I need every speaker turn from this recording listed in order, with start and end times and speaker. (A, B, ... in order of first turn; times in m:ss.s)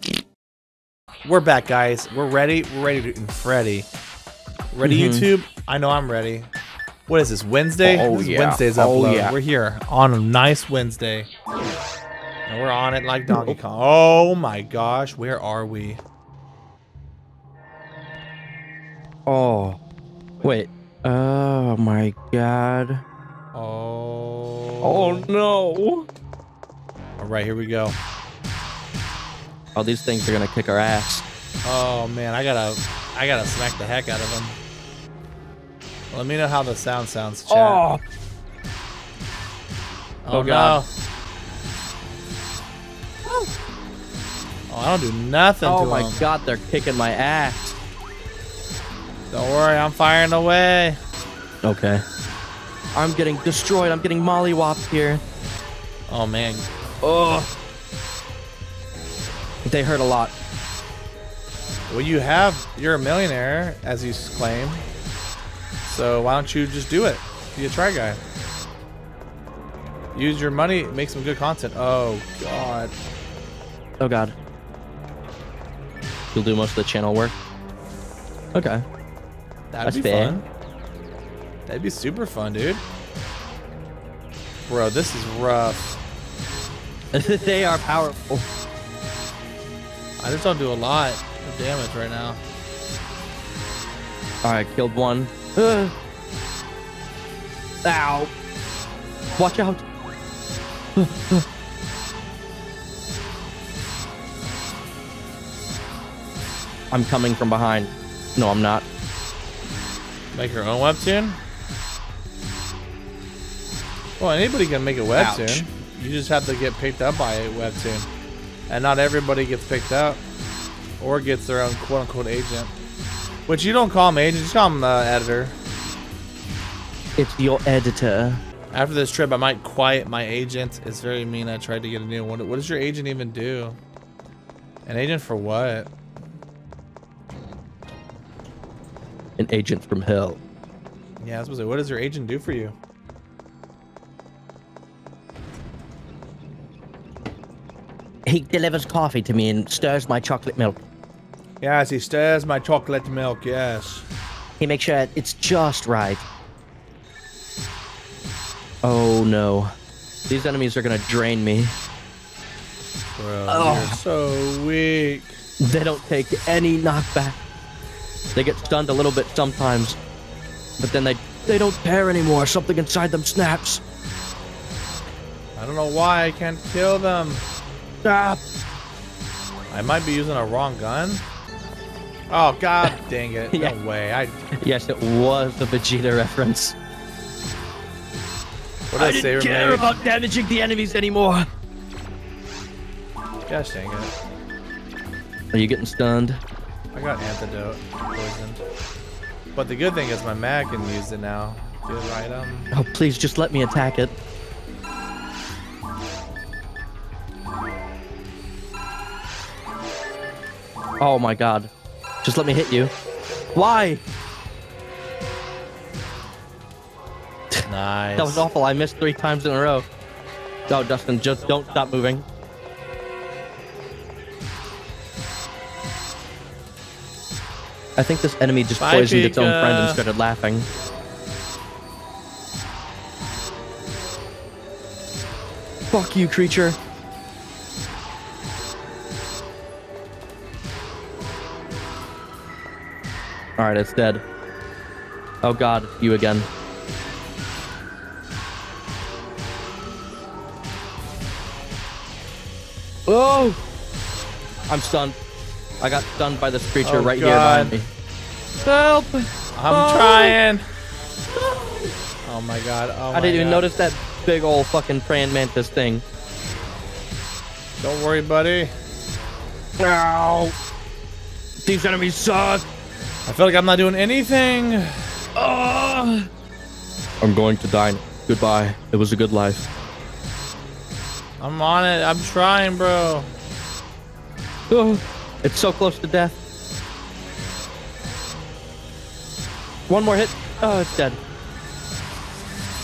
0:01.2-0:03.9 A
0:04.7-0:06.5 A
0:04.8-0:05.3 B
0:07.1-0:11.3 A
0:07.8-0:09.3 B
0:12.5-0:16.0 A
0:13.3-0:13.6 B
0:19.2-0:19.8 B
0:20.4-0:23.0 B
0:23.5-0:25.3 A
0:24.8-0:26.1 B
0:27.2-0:28.0 A
0:29.7-0:31.2 B
0:31.6-0:34.6 A
0:36.1-0:37.8 A
0:37.5-0:38.0 B
0:40.2-0:40.9 A
0:40.3-0:40.8 B
0:44.7-0:46.3 A
0:45.6-0:47.8 B
0:49.3-0:51.0 A
0:51.6-0:52.0 B
0:53.0-0:55.2 B
0:56.1-0:56.7 A
0:57.0-0:57.5 B
0:59.6-1:00.3 B
1:01.9-1:04.8 A
1:05.9-1:08.2 A
1:10.1-1:13.0 A
1:14.0-1:14.4 B
1:16.3-1:17.4 B
1:18.5-1:18.8 B
1:19.7-1:20.5 A
1:19.8-1:20.4 B
1:21.7-1:22.8 A
1:24.7-1:25.9 A
1:27.1-1:28.4 B
1:30.2-1:32.4 A
1:34.4-1:35.9 B
1:37.8-1:38.3 B
1:39.4-1:39.8 B
1:41.0-1:41.4 B
1:46.9-1:48.8 B
1:50.3-1:51.4 A
1:54.2-1:58.1 A
1:55.2-1:55.7 B
1:58.7-2:00.2 A
2:01.0-2:02.7 A
2:03.5-2:05.6 A
2:07.2-2:08.4 B
2:08.7-2:13.8 A
2:14.8-2:15.9 A
2:19.4-2:20.4 B
2:21.2-2:22.8 A
2:28.2-2:30.8 B
2:31.6-2:34.0 A
2:34.6-2:36.2 B
2:38.8-2:39.7 B
2:40.3-2:41.7 B
2:43.2-2:45.4 A
2:43.5-2:44.0 B
2:45.6-2:47.4 B
2:48.3-2:50.0 B
2:50.8-2:53.8 B
2:55.6-2:57.4 A
2:58.0-2:58.4 B
2:59.7-3:01.2 A
3:02.3-3:04.5 A
3:04.6-3:06.8 B
3:08.9-3:09.9 A
3:08.9-3:11.5 B
3:13.5-3:14.1 A
3:15.5-3:16.4 B
3:16.9-3:18.6 A
3:19.5-3:22.7 A
3:22.7-3:24.1 B
3:31.0-3:31.7 B
3:32.2-3:32.9 B
3:33.5-3:34.0 B
3:37.7-3:38.5 A
3:38.2-3:39.9 B
3:40.7-3:42.2 B
3:48.0-3:50.7 B
3:48.8-3:50.0 A
3:55.9-3:56.8 B
4:03.6-4:04.2 B
4:05.4-4:06.5 B
4:13.1-4:13.6 B
4:14.7-4:15.2 B
4:15.8-4:17.9 B
4:16.8-4:17.8 A
4:18.6-4:20.4 B
4:19.6-4:20.6 A
4:21.3-4:21.9 B
4:22.2-4:23.7 A
4:23.1-4:26.0 B
4:27.8-4:28.7 A
4:29.8-4:30.5 B
4:31.6-4:32.6 B
4:33.3-4:34.9 A
4:35.4-4:36.3 B
4:37.2-4:39.6 B
4:41.4-4:43.3 A
4:44.7-4:46.4 B
4:49.9-4:51.2 B